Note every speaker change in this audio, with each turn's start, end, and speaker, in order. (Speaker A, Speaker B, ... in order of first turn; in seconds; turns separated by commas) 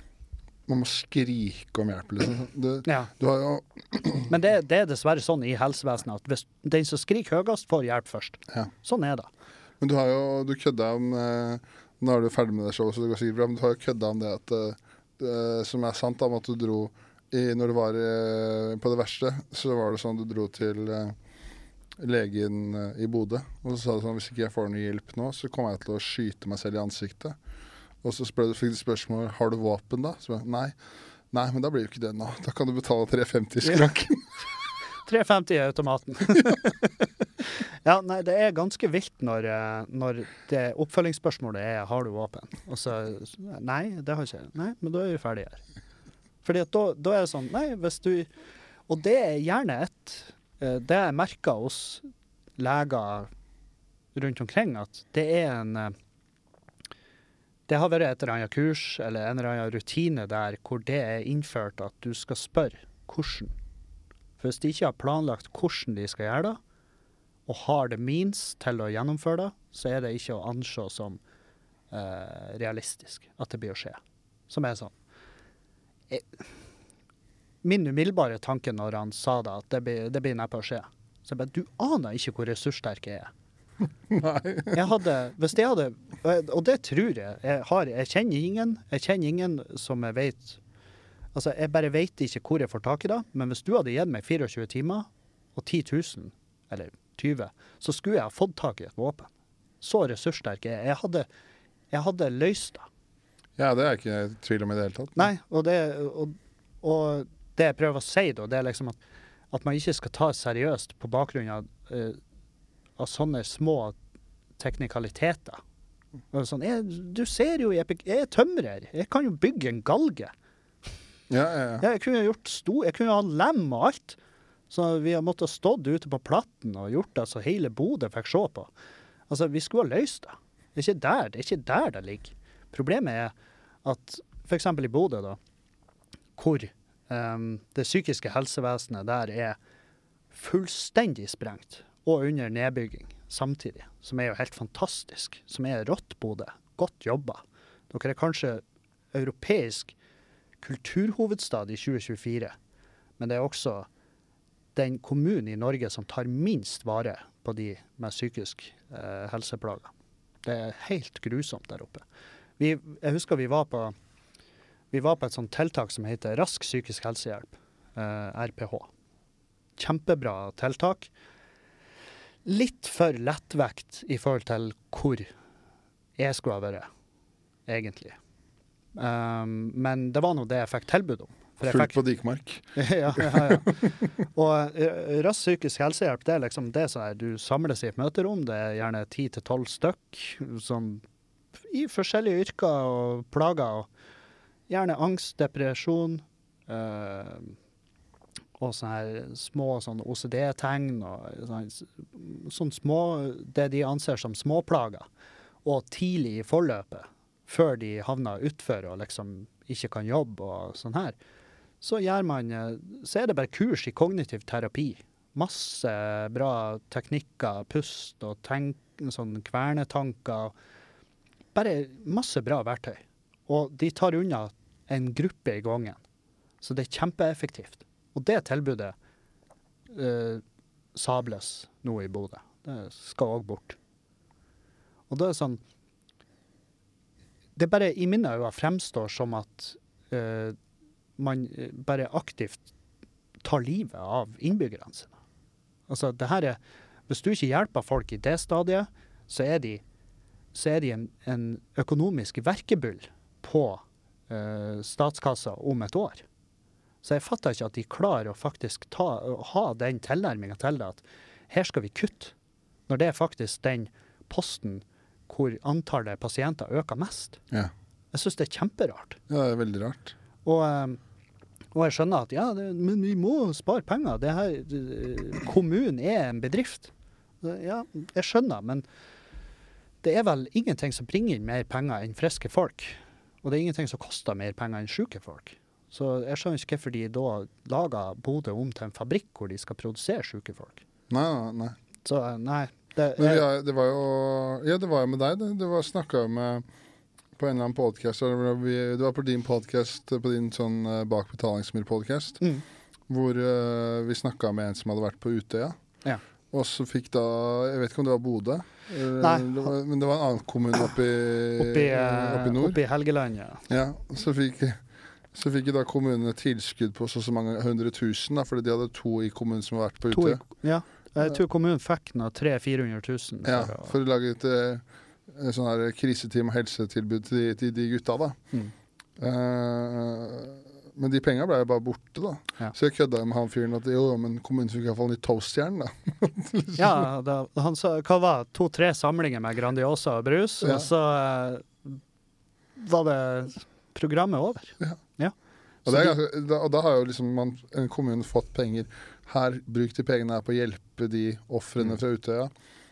Speaker A: 0.7-4.3, Speaker B: 2.9-3.1, Speaker B: 4.3-9.3, Speaker A: 9.8-21.1, Speaker A: 22.0-27.4, Speaker A: 28.0-30.8, Speaker A: 31.3-34.4, Speaker B: 33.6-33.9, Speaker B: 35.0-45.6, Speaker B: 46.4-48.3, Speaker B: 48.9-52.0, Speaker B: 52.6-53.3, Speaker B: 54.1-55.9, Speaker B: 57.7-63.5, Speaker B: 64.4-66.6, Speaker B: 67.5-71.2, Speaker B: 71.9-74.9, Speaker B: 76.1-76.5, Speaker B: 77.6-83.3, Speaker A: 84.1-84.8, Speaker B: 84.7-90.6, Speaker B: 91.3-99.3, Speaker B: 99.8-101.3, Speaker B: 101.9-102.9, Speaker A: 103.6-105.3, Speaker B: 105.2-109.0, Speaker B: 109.5-112.2, Speaker B: 113.0-114.0, Speaker B: 114.6-115.6, Speaker B: 116.3-120.3, Speaker A: 121.3-121.8, Speaker B: 121.8-124.2, Speaker B: 124.7-128.7, Speaker B: 129.3-133.3, Speaker B: 133.8-135.4, Speaker B: 136.4-139.6, Speaker B: 140.3-149.9, Speaker B: 150.6-152.5, Speaker B: 153.2-153.9, Speaker B: 154.7-159.9, Speaker B: 160.4-162.0, Speaker B: 162.6-163.9, Speaker B: 164.9-168.9, Speaker B: 169.8-171.1, Speaker B: 172.4-175.3, Speaker B: 176.2-176.9, Speaker B: 177.7-178.2, Speaker B: 178.9-182.0, Speaker A: 181.7-183.9, Speaker B: 182.7-191.0, Speaker B: 191.7-193.9, Speaker B: 194.7-197.5, Speaker B: 198.6-205.1, Speaker B: 205.6-211.2, Speaker B: 211.8-220.5, Speaker B: 221.5-226.0, Speaker B: 226.6-228.9, Speaker B: 229.9-230.4, Speaker B: 230.9-233.8, Speaker B: 235.1-235.6, Speaker B: 237.6-240.6, Speaker B: 241.2-242.6, Speaker B: 243.4-245.2, Speaker B: 245.9-249.8, Speaker B: 250.5-256.2, Speaker B: 257.0-262.3, Speaker B: 262.9-267.4, Speaker B: 268.1-269.2, Speaker A: 269.3-270.1, Speaker B: 270.4-271.0, Speaker B: 271.7-276.9, Speaker B: 277.4-278.8, Speaker B: 280.0-290.8, Speaker A: 291.1-291.8, Speaker B: 292.0-293.4, Speaker A: 293.2-296.6, Speaker A: 297.4-302.4, Speaker A: 303.1-305.8, Speaker A: 306.5-312.8, Speaker B: 309.2-309.7, Speaker B: 311.6-313.6, Speaker A: 313.7-314.8, Speaker A: 315.3-320.4, Speaker B: 320.1-323.9, Speaker A: 323.4-328.4, Speaker A: 329.2-337.1, Speaker B: 336.8-342.0, Speaker A: 340.6-340.9, Speaker B: 342.8-345.3, Speaker A: 345.9-352.5, Speaker B: 345.9-346.1